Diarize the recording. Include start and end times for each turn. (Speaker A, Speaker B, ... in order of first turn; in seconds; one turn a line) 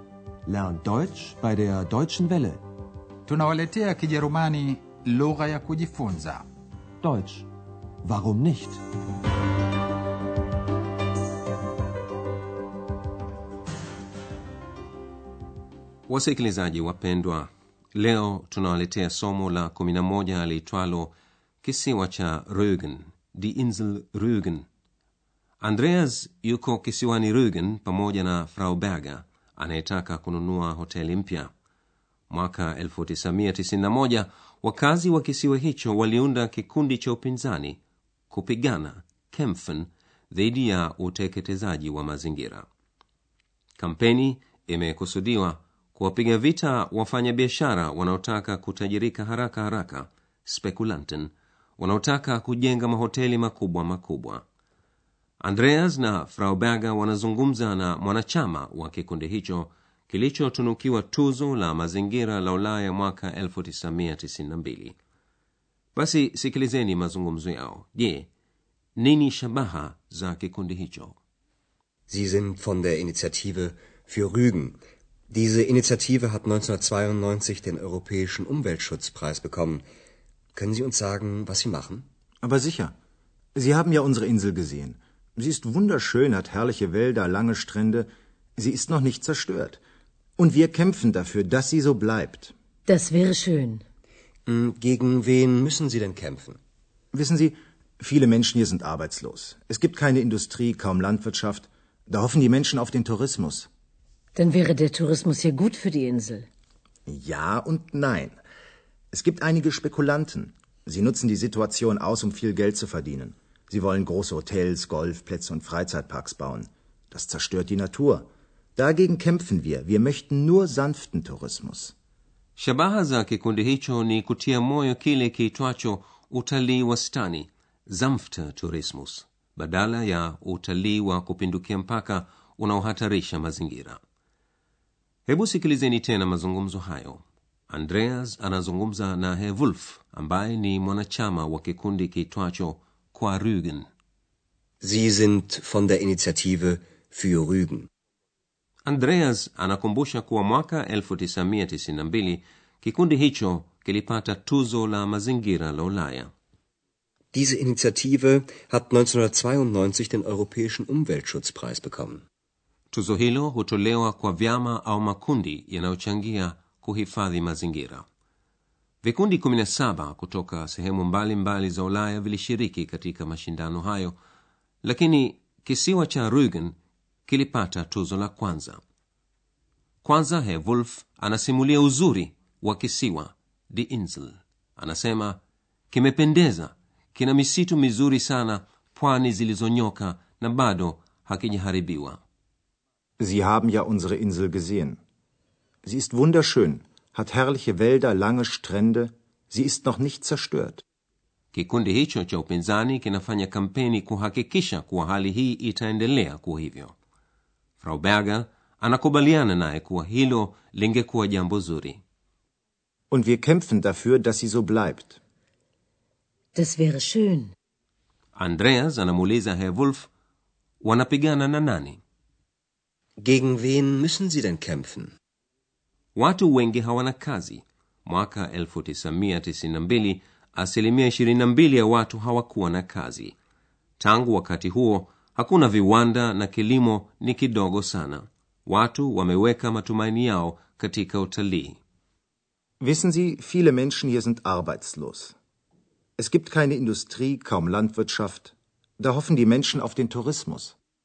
Speaker A: 0.5-2.5
Speaker B: 3.3-6.4
Speaker A: 7.0-7.4
Speaker A: 8.0-8.8
Speaker C: 16.1-24.6
Speaker C: 25.6-31.5
Speaker C: 32.3-37.8
Speaker C: 38.3-42.6
Speaker C: 43.8-54.4
Speaker C: 55.4-65.0
Speaker C: 65.9-68.3
Speaker C: 69.0-71.2
Speaker D: 72.1-74.8
Speaker D: 75.3-79.8
Speaker D: 80.5-82.0
Speaker E: 82.4-82.9
Speaker E: 83.5-89.8
Speaker E: 90.4-92.5
Speaker F: 92.9-93.8
Speaker D: 94.5-96.6
Speaker E: 97.1-103.7
Speaker F: 104.3-106.5
Speaker E: 107.0-108.4
Speaker E: 109.1-121.9
Speaker C: 122.6-134.0
Speaker C: 135.3-143.9
Speaker D: 144.8-147.9
Speaker C: 148.8-156.3
Speaker D: 157.3-162.2
Speaker C: 162.9-168.0
Speaker C: 169.0-174.2
Speaker C: 174.8-176.8
Speaker C: 177.3-178.8
Speaker C: 180.0-185.4
Speaker C: 185.9-192.2
Speaker E: 193.2-195.0
Speaker E: 195.8-200.8
Speaker C: 201.5-206.9
Speaker C: 207.8-212.0
Speaker E: 213.1-215.2
Speaker F: 216.5-217.5
Speaker C: 218.3-220.1
Speaker C: 220.8-222.0
Speaker D: 223.2-225.1
Speaker C: 226.2-233.3
Speaker C: 234.0-241.8
Speaker E: 242.8-245.3
Speaker E: 246.2-250.7